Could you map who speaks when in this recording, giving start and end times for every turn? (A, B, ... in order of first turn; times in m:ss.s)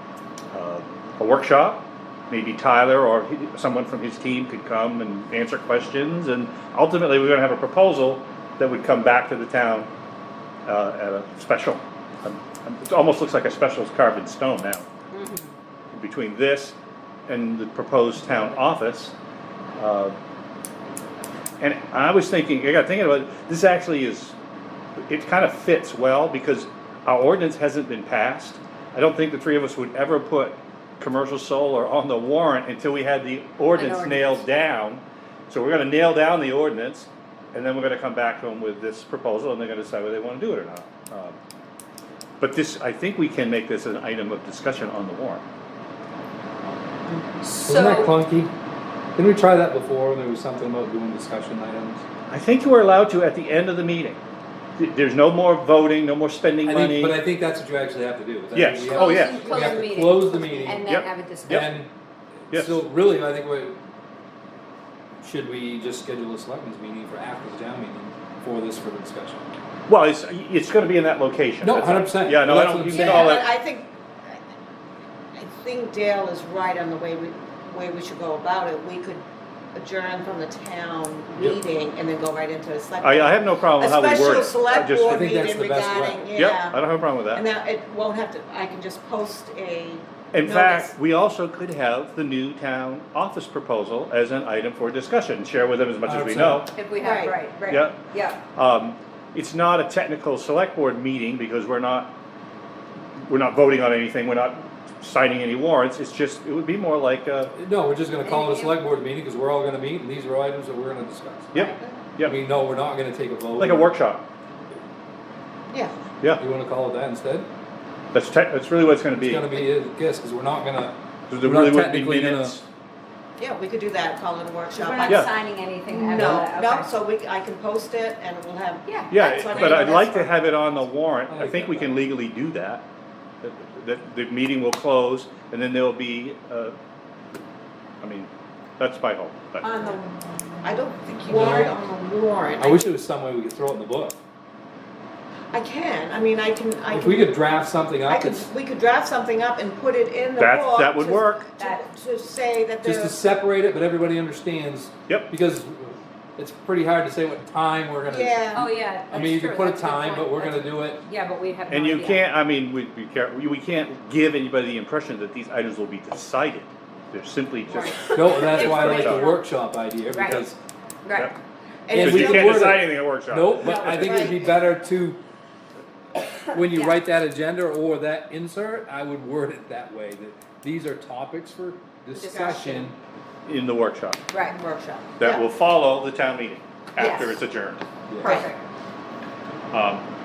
0:00.5-0:09.9 A
0:10.7-0:14.9 A
0:15.1-0:15.5 B
0:15.9-0:16.8 A
0:17.3-0:19.2 A
0:19.8-0:20.2 A
0:21.6-0:24.4 A
0:25.1-0:41.4 A
0:33.7-0:34.4 B
0:42.4-0:45.4 A
0:47.4-0:48.2 B
0:47.6-0:48.5 C
0:49.2-0:52.0 C
0:52.3-0:54.2 A
0:54.8-0:57.2 A
0:56.7-1:00.8 C
0:58.5-0:59.5 A
0:58.9-1:01.7 B
1:00.9-1:01.7 A
1:01.5-1:01.9 C
1:02.5-1:03.8 C
1:02.5-1:02.8 A
1:05.2-1:09.4 C
1:09.9-1:13.4 A
1:11.6-1:13.4 C
1:12.9-1:14.4 D
1:15.4-1:30.9 D
1:23.0-1:25.3 A
1:24.9-1:26.3 C
1:26.4-1:27.4 A
1:30.3-1:36.7 A
1:36.0-1:36.7 C
1:36.7-1:38.4 B
1:37.0-1:37.4 D
1:37.7-1:42.1 A
1:43.3-1:47.5 A
1:47.6-1:51.5 C
1:48.2-1:48.8 B
1:51.5-1:52.4 A
1:52.2-1:53.9 C
1:53.6-1:54.3 A
1:56.4-1:57.5 C
1:58.1-1:59.6 A
1:59.1-2:02.6 C
2:01.3-2:02.6 A
2:03.4-2:05.3 D
2:04.8-2:07.0 B
2:05.0-2:05.3 A
2:05.9-2:10.4 D
2:08.9-2:09.9 B
2:09.1-2:12.8 A
2:11.3-2:12.0 C
2:13.4-2:16.8 A
2:18.0-2:19.7 A
2:19.6-2:20.0 B
2:19.7-2:20.0 D
2:20.6-2:22.9 D
2:21.3-2:21.8 C
2:22.6-2:24.2 C
2:25.5-2:27.3 D
2:26.9-2:28.5 C
2:28.1-2:33.2 D
2:30.4-2:31.5 A
2:31.6-2:31.8 B
2:32.8-2:41.0 C
2:38.1-2:38.7 D
2:38.5-2:42.2 B
2:41.7-2:49.3 A
2:47.7-2:48.2 D
2:48.1-2:50.6 C
2:48.1-2:49.4 B
2:50.1-2:50.5 B
2:51.0-2:51.3 B
2:51.9-2:52.8 D
2:51.9-2:55.2 C
2:52.0-2:54.4 A
2:53.6-2:54.1 B
2:53.9-2:54.4 D
2:56.5-3:03.0 C
2:56.7-2:57.0 B
3:02.1-3:02.9 B
3:03.5-3:04.2 A
3:04.3-3:04.6 B
3:04.4-3:05.4 D
3:05.2-3:07.8 A
3:07.0-3:07.4 B
3:08.1-3:08.5 C
3:08.2-3:08.6 B
3:08.2-3:08.5 D
3:09.7-3:10.0 A